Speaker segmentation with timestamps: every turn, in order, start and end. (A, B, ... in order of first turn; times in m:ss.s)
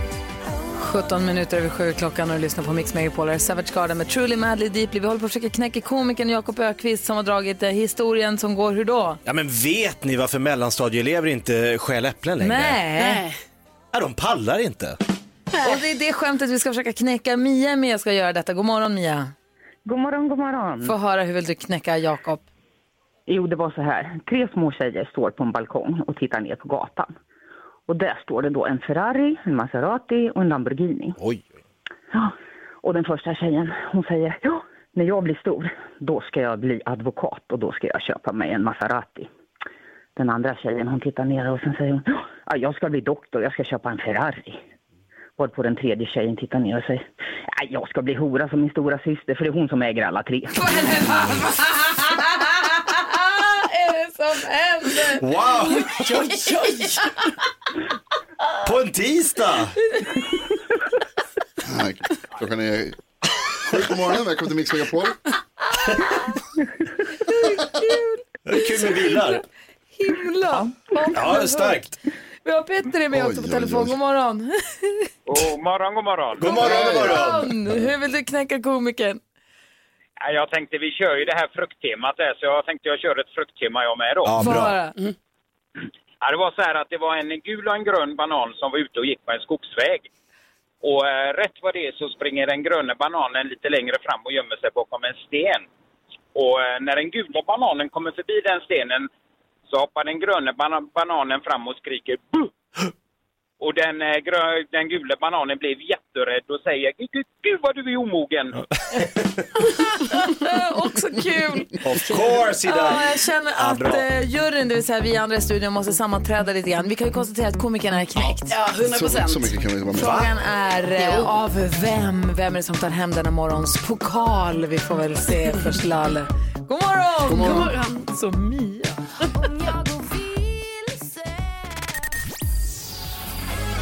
0:00.7-0:09.2 A
0:09.2-0:12.8 B
0:12.4-0:13.2 A
0:13.0-0:13.4 C
0:13.9-0:15.0 B
0:15.5-0:15.8 C
0:15.6-0:19.3 A
0:19.8-0:20.9 D
0:20.8-0:22.4 A
0:23.3-0:27.1 D
0:27.9-0:31.2 D
0:31.2-0:31.5 B
0:32.8-0:39.3 D
0:40.2-0:44.6 D
0:45.4-0:50.6 D
0:50.5-0:56.2 A
0:55.2-0:56.0 B
0:55.6-0:57.1 C
0:58.6-0:59.8 B
1:01.6-1:03.0 E
1:03.6-1:05.2 E
1:05.8-1:06.1 A
1:07.2-1:09.4 A
1:08.4-1:09.4 B
1:09.9-1:11.8 A
1:11.1-1:11.9 B
1:12.4-1:15.1 A
1:13.1-1:14.0 E
1:15.3-1:16.6 F
1:16.4-1:17.5 B
1:16.4-1:19.2 A
1:16.6-1:17.2 E
1:20.2-1:24.4 F
1:24.2-1:24.8 B
1:24.4-1:25.0 A
1:26.2-1:30.1 F
1:30.8-1:35.6 F
1:36.3-1:39.1 F
1:39.7-1:42.5 F
1:43.6-1:48.6 F
1:48.9-1:49.4 B
1:50.1-1:58.5 A
1:51.8-1:54.0 B
1:58.5-1:59.5 C
1:58.8-2:00.3 E
1:59.9-2:09.3 A
2:07.3-2:07.7 E
2:07.3-2:08.0 C